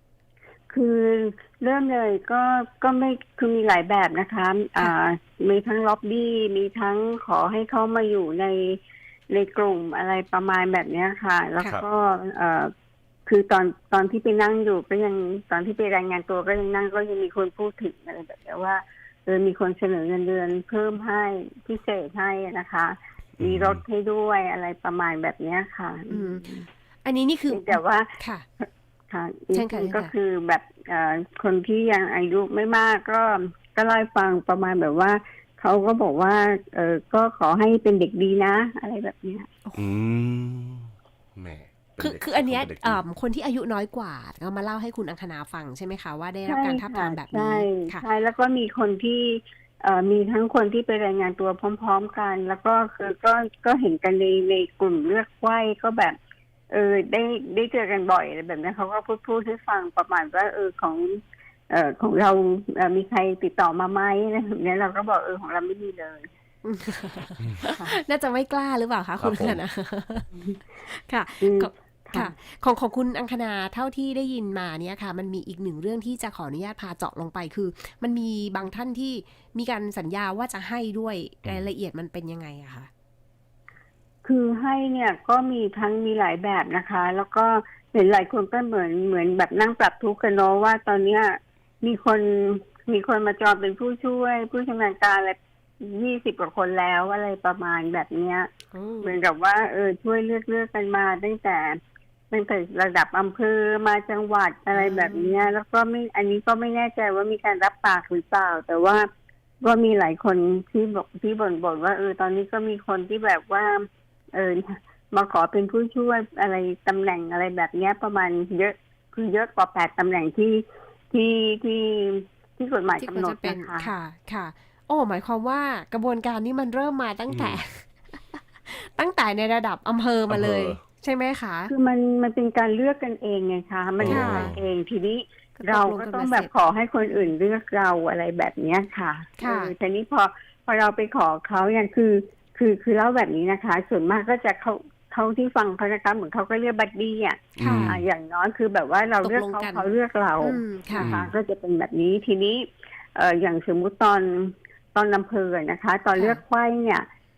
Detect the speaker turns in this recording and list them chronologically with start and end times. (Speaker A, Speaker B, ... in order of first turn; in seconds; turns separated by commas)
Speaker A: 0.7-12.7, Speaker A: 13.2-26.7, Speaker B: 23.4-23.8, Speaker C: 26.1-26.5, Speaker C: 27.1-28.4, Speaker A: 27.5-39.5, Speaker C: 29.5-30.1, Speaker B: 39.8-43.0, Speaker C: 42.0-48.0, Speaker A: 46.5-56.2, Speaker A: 56.7-61.2, Speaker A: 61.7-66.3, Speaker C: 66.6-82.9, Speaker A: 67.6-67.9, Speaker B: 69.2-69.6, Speaker A: 71.4-72.3, Speaker A: 84.2-98.5, Speaker C: 98.7-99.2, Speaker A: 99.0-101.8, Speaker A: 102.3-109.1, Speaker C: 104.7-105.5, Speaker A: 109.6-123.9, Speaker C: 123.0-131.7, Speaker B: 127.3-127.6, Speaker B: 130.3-130.8, Speaker A: 131.7-157.1, Speaker B: 134.0-134.6, Speaker C: 134.1-134.5, Speaker C: 135.6-136.5, Speaker C: 137.1-137.3, Speaker C: 139.4-139.7, Speaker B: 147.6-148.0, Speaker C: 147.6-147.9, Speaker C: 149.2-151.1, Speaker B: 151.0-151.3, Speaker C: 156.1-156.4